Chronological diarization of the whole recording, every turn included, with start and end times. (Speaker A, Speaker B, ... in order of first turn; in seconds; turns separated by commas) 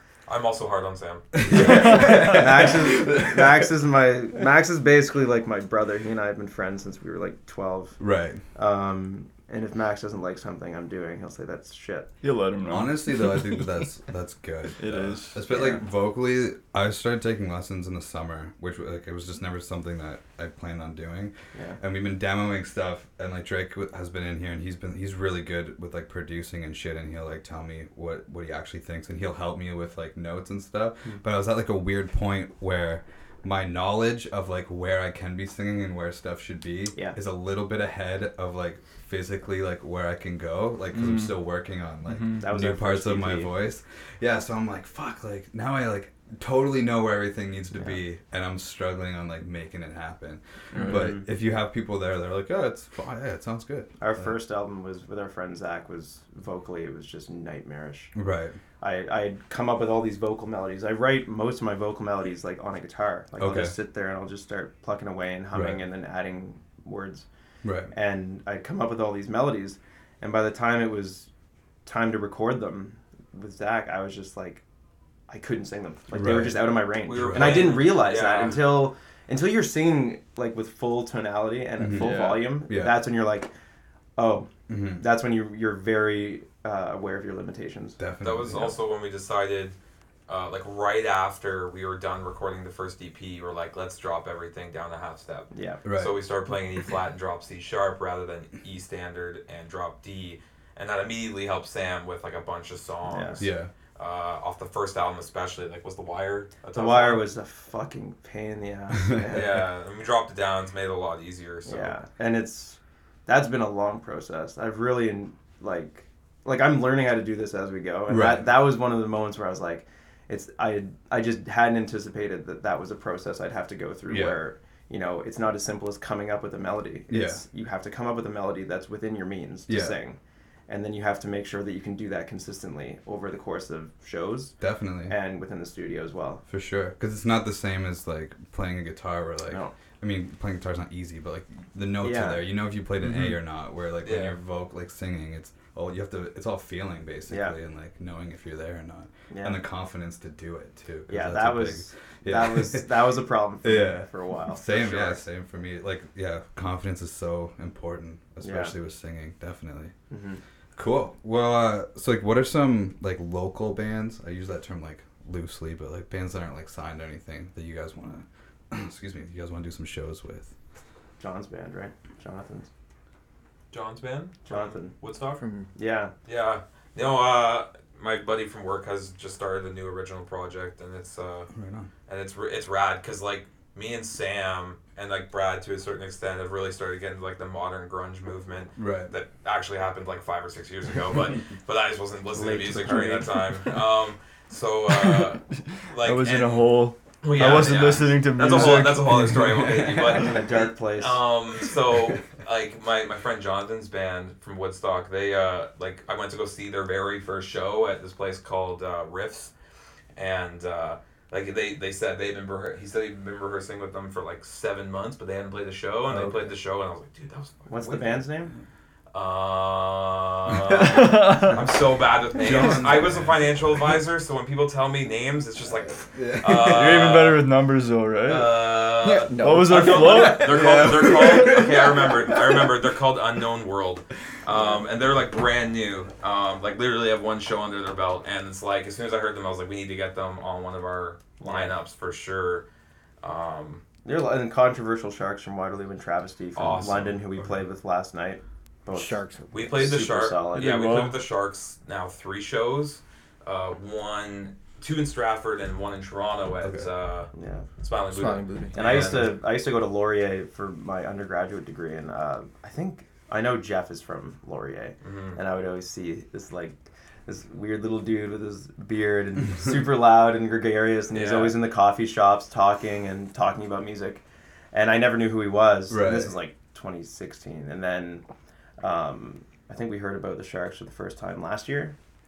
Speaker A: 0.3-1.9, Speaker B: 1.4-3.7, Speaker C: 1.6-12.1, Speaker D: 1.6-2.4, Speaker B: 8.0-8.4, Speaker D: 12.2-13.7, Speaker B: 12.7-54.3, Speaker D: 14.8-15.4, Speaker C: 15.5-15.8, Speaker C: 21.5-21.8, Speaker D: 40.9-41.4, Speaker D: 42.0-42.5, Speaker C: 42.4-43.5, Speaker D: 50.7-51.1, Speaker C: 50.9-51.3, Speaker C: 54.0-58.1, Speaker B: 58.1-58.6, Speaker C: 58.8-67.3, Speaker B: 63.4-63.7, Speaker B: 65.5-65.8, Speaker B: 67.6-67.9, Speaker C: 67.9-71.3, Speaker C: 71.8-74.6, Speaker C: 75.3-83.5, Speaker B: 76.1-77.8, Speaker A: 77.0-78.6, Speaker B: 81.8-82.9, Speaker D: 81.9-82.4, Speaker C: 84.2-88.0, Speaker B: 84.7-85.0, Speaker B: 88.0-88.7, Speaker A: 88.2-89.8, Speaker A: 90.3-107.2, Speaker C: 95.5-95.8, Speaker B: 95.8-96.1, Speaker C: 103.1-103.4, Speaker B: 103.4-103.7, Speaker C: 106.7-109.5, Speaker B: 109.0-109.6, Speaker A: 109.3-112.0, Speaker C: 111.7-136.4, Speaker B: 118.1-118.5, Speaker B: 124.1-124.4, Speaker B: 127.1-127.4, Speaker B: 129.7-129.9, Speaker B: 134.6-135.2, Speaker B: 136.5-153.1, Speaker C: 139.5-139.7, Speaker C: 142.0-142.4, Speaker D: 143.0-143.3, Speaker A: 144.0-144.3, Speaker C: 147.3-147.6, Speaker C: 149.3-149.6, Speaker C: 151.1-155.2, Speaker B: 153.6-159.9, Speaker C: 158.4-158.7, Speaker C: 160.1-160.4, Speaker B: 160.8-170.5, Speaker C: 171.2-172.7, Speaker A: 173.7-175.4, Speaker C: 174.4-174.9, Speaker E: 175.3-175.7, Speaker C: 175.7-176.1, Speaker A: 176.3-181.5, Speaker B: 181.5-181.9, Speaker A: 182.1-209.5, Speaker B: 188.8-189.1, Speaker C: 192.3-193.3, Speaker D: 194.9-199.8, Speaker C: 197.4-197.8, Speaker B: 199.1-200.2, Speaker C: 200.2-201.2, Speaker A: 210.2-218.2, Speaker B: 216.1-216.5, Speaker C: 217.7-218.5, Speaker A: 219.1-227.5, Speaker B: 220.5-220.9, Speaker D: 220.8-221.6, Speaker B: 222.4-223.9, Speaker B: 226.1-227.1, Speaker D: 226.6-228.6, Speaker A: 228.2-242.7, Speaker E: 229.0-230.2, Speaker D: 229.4-231.1, Speaker B: 230.1-232.7, Speaker C: 241.4-241.8, Speaker A: 243.2-243.8, Speaker C: 244.0-250.7, Speaker A: 246.6-247.2, Speaker E: 248.9-250.0, Speaker A: 249.5-259.3, Speaker D: 250.5-251.2, Speaker B: 256.6-256.9, Speaker C: 257.3-257.6, Speaker E: 258.1-259.2, Speaker C: 258.7-278.2, Speaker A: 265.0-265.4, Speaker A: 271.1-271.6, Speaker B: 275.9-276.3, Speaker C: 278.8-281.9